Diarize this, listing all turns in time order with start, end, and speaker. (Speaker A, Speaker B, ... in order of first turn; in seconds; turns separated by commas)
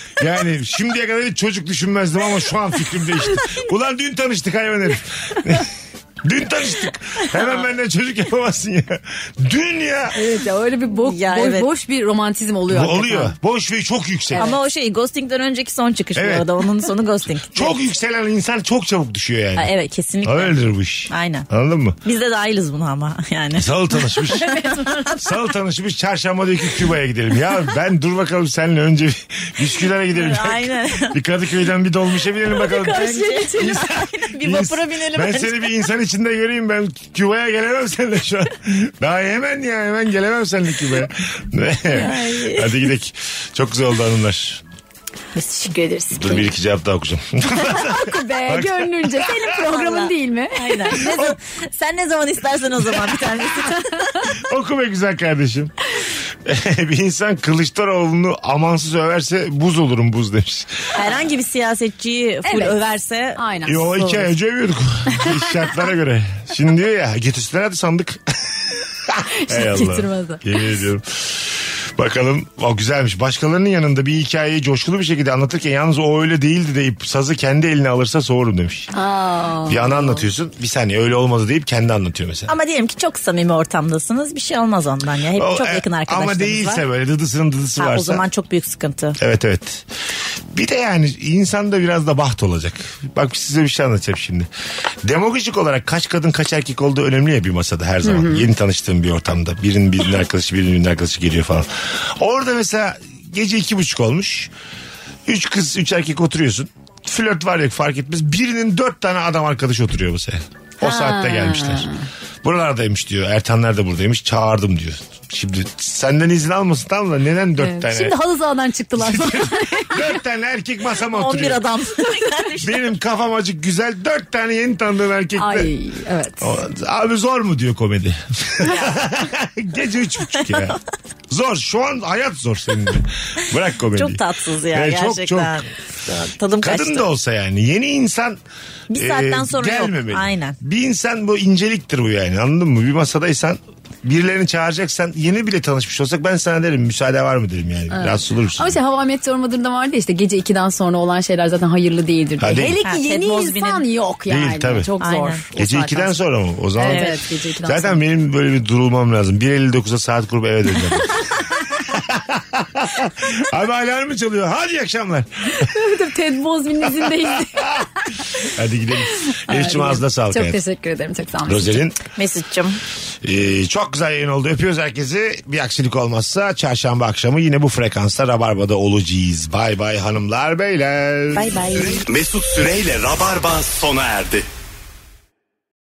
Speaker A: 0.2-5.7, Speaker A: 6.2-10.2, Speaker B: 10.1-13.4, Speaker C: 11.0-11.7, Speaker A: 12.7-14.5, Speaker B: 14.3-14.6, Speaker C: 14.4-17.8, Speaker A: 16.1-16.5, Speaker A: 17.5-19.7, Speaker C: 19.6-21.5, Speaker A: 20.2-22.0, Speaker C: 22.0-25.0, Speaker A: 23.5-24.6, Speaker B: 24.3-25.2, Speaker A: 25.1-44.6, Speaker C: 30.1-31.2, Speaker C: 32.5-35.7, Speaker B: 32.8-33.7, Speaker C: 41.9-42.9, Speaker B: 45.3-46.5, Speaker A: 46.1-49.6, Speaker B: 47.5-51.4, Speaker C: 49.7-54.1, Speaker B: 53.7-54.2, Speaker A: 54.3-55.7, Speaker A: 56.4-60.9, Speaker C: 60.9-64.3, Speaker B: 62.4-62.8, Speaker B: 63.4-64.1, Speaker A: 63.7-68.2, Speaker A: 69.0-78.9, Speaker B: 69.4-70.6, Speaker B: 78.9-80.2, Speaker A: 79.7-82.5, Speaker C: 82.5-86.8, Speaker A: 85.3-88.2, Speaker C: 87.8-89.2, Speaker A: 89.2-89.8, Speaker A: 90.5-94.5, Speaker A: 95.0-104.5, Speaker B: 98.0-98.5, Speaker A: 105.2-111.9, Speaker B: 110.8-112.0, Speaker A: 112.4-118.2, Speaker B: 117.6-120.2, Speaker A: 119.0-121.6, Speaker C: 121.1-122.8, Speaker B: 122.1-122.4, Speaker A: 122.6-125.7, Speaker B: 125.4-126.5, Speaker A: 126.4-130.8, Speaker C: 128.7-129.0, Speaker C: 130.4-130.8, Speaker A: 131.3-135.6, Speaker C: 133.9-137.1, Speaker A: 136.6-138.4, Speaker C: 138.9-140.6, Speaker A: 138.9-148.8, Speaker B: 147.9-156.2, Speaker A: 152.4-152.8, Speaker C: 152.8-153.8, Speaker A: 154.3-154.9, Speaker C: 155.0-155.4, Speaker A: 155.5-165.7, Speaker B: 156.8-158.0, Speaker C: 156.9-157.1, Speaker B: 165.6-167.9, Speaker A: 166.9-167.8, Speaker A: 168.4-170.6, Speaker B: 169.3-171.8, Speaker A: 171.5-172.0, Speaker C: 172.2-172.8, Speaker A: 173.2-181.5, Speaker C: 181.3-182.1, Speaker D: 181.7-184.5